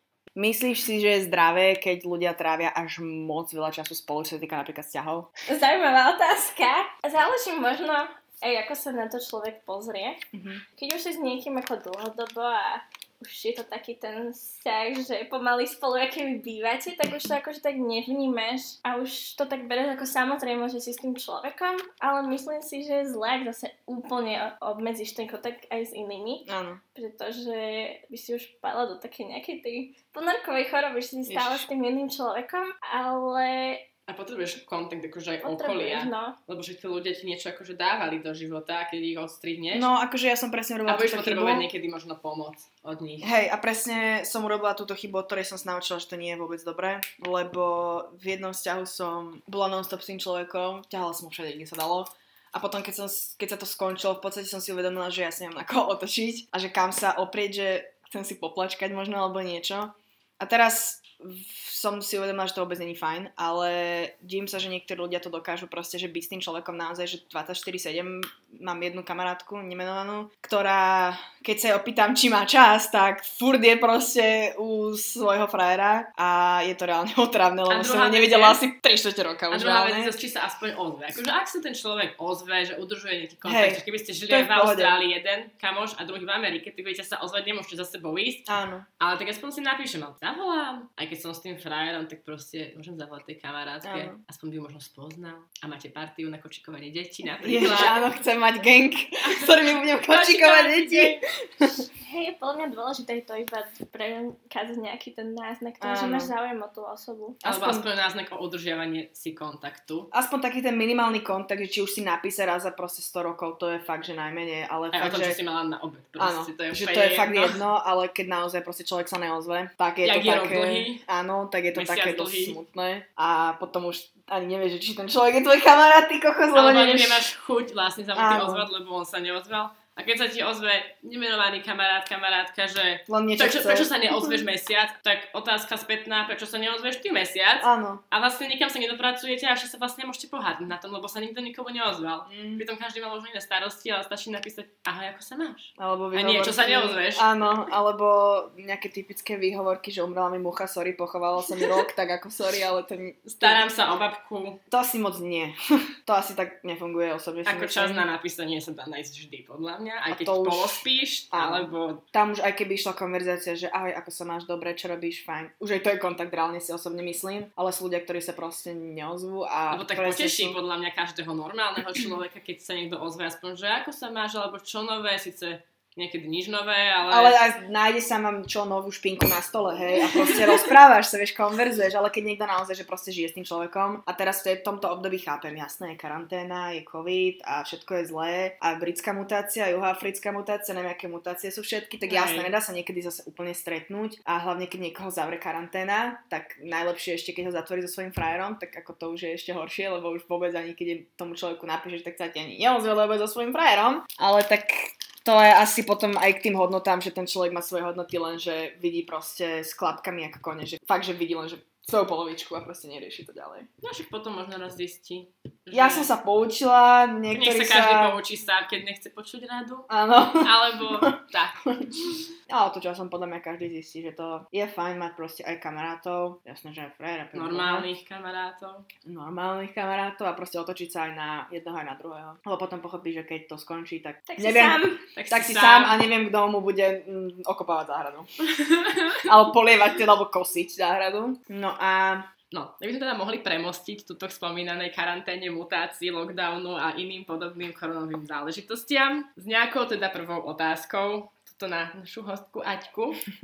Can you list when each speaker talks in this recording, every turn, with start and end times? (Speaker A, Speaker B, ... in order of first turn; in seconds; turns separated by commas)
Speaker A: 0.3-5.3, Speaker B: 5.5-10.2, Speaker A: 10.3-10.6, Speaker B: 10.8-33.9, Speaker A: 26.4-26.8, Speaker A: 31.3-31.7, Speaker C: 34.1-39.9, Speaker B: 35.4-36.4, Speaker A: 39.7-41.7, Speaker C: 40.9-43.3, Speaker A: 43.2-80.2, Speaker C: 77.7-78.6, Speaker C: 79.5-88.5, Speaker A: 83.4-85.0, Speaker A: 88.5-88.8, Speaker C: 89.0-98.1, Speaker A: 93.8-94.2, Speaker A: 97.4-101.8, Speaker C: 99.2-101.2, Speaker B: 102.0-107.4, Speaker A: 105.8-106.3, Speaker A: 107.4-107.9, Speaker C: 107.4-110.1, Speaker A: 110.1-115.4, Speaker C: 114.9-117.6, Speaker A: 116.2-127.3, Speaker C: 120.0-121.0, Speaker C: 121.7-122.6, Speaker C: 126.5-147.3, Speaker A: 128.2-128.7, Speaker A: 133.1-134.4, Speaker A: 137.6-138.0, Speaker A: 142.3-142.6, Speaker A: 145.8-153.6, Speaker C: 153.3-154.6, Speaker A: 154.7-158.1, Speaker C: 157.4-162.0, Speaker A: 160.1-170.6, Speaker C: 169.7-177.4, Speaker A: 177.1-213.7, Speaker C: 192.1-192.5, Speaker C: 213.8-216.1, Speaker A: 215.7-218.2, Speaker C: 217.3-221.6, Speaker A: 219.9-221.1, Speaker A: 222.5-227.9, Speaker C: 227.3-228.9, Speaker A: 229.1-238.3, Speaker B: 234.3-235.0, Speaker C: 235.2-236.0, Speaker C: 238.4-239.3, Speaker A: 239.2-242.3, Speaker C: 242.5-253.2